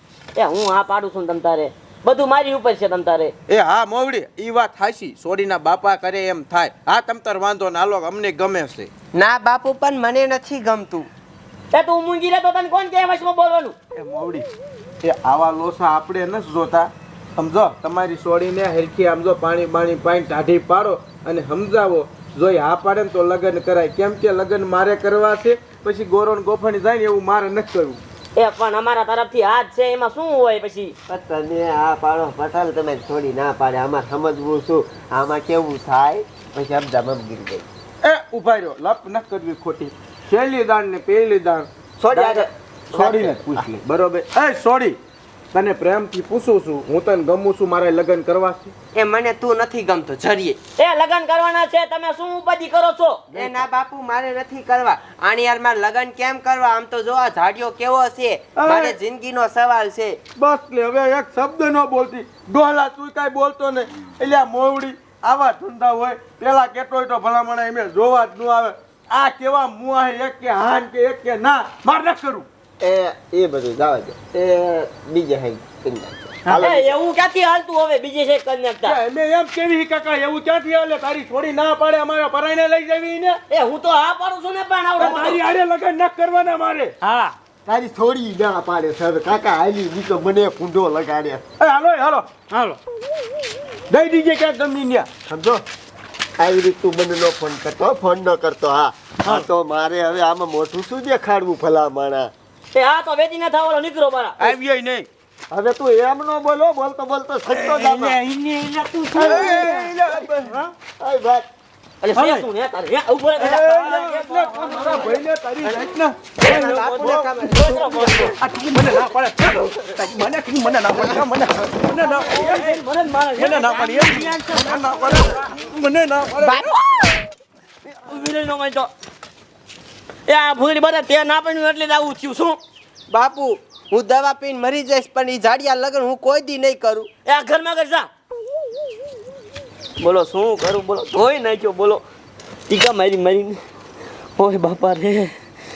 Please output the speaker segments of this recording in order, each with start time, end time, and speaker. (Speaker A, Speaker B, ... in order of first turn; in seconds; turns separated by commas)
Speaker A: 0.3-3.3, Speaker B: 3.5-8.9, Speaker C: 9.1-11.1, Speaker A: 11.7-13.8, Speaker B: 13.9-14.5, Speaker B: 15.0-28.0, Speaker A: 28.4-30.9, Speaker D: 31.1-37.7, Speaker B: 38.0-45.0, Speaker D: 42.0-43.6, Speaker B: 45.5-48.7, Speaker C: 49.0-50.6, Speaker A: 50.8-53.2, Speaker B: 53.3-53.8, Speaker C: 53.3-60.2, Speaker B: 58.6-59.0, Speaker B: 60.4-72.5, Speaker D: 72.8-77.0, Speaker A: 76.6-79.0, Speaker B: 78.8-83.4, Speaker A: 83.5-85.4, Speaker B: 85.0-86.9, Speaker E: 87.0-87.4, Speaker D: 87.7-91.4, Speaker B: 91.6-92.3, Speaker E: 92.5-92.8, Speaker B: 93.9-95.1, Speaker D: 95.3-95.6, Speaker D: 96.4-102.3, Speaker A: 102.7-104.5, Speaker B: 104.4-105.1, Speaker D: 105.5-108.2, Speaker E: 107.7-109.9, Speaker B: 109.2-110.6, Speaker D: 109.2-110.3, Speaker D: 111.0-111.5, Speaker A: 112.0-115.1, Speaker E: 112.2-112.5, Speaker B: 113.4-122.8, Speaker C: 116.4-118.3, Speaker A: 116.4-118.4, Speaker A: 122.0-124.2, Speaker B: 123.4-126.7, Speaker E: 123.8-125.0, Speaker C: 126.4-127.2, Speaker A: 127.9-128.9, Speaker A: 130.3-132.6, Speaker C: 133.1-137.1, Speaker A: 137.3-138.1, Speaker A: 140.0-142.0, Speaker A: 142.7-143.6, Speaker A: 144.4-145.3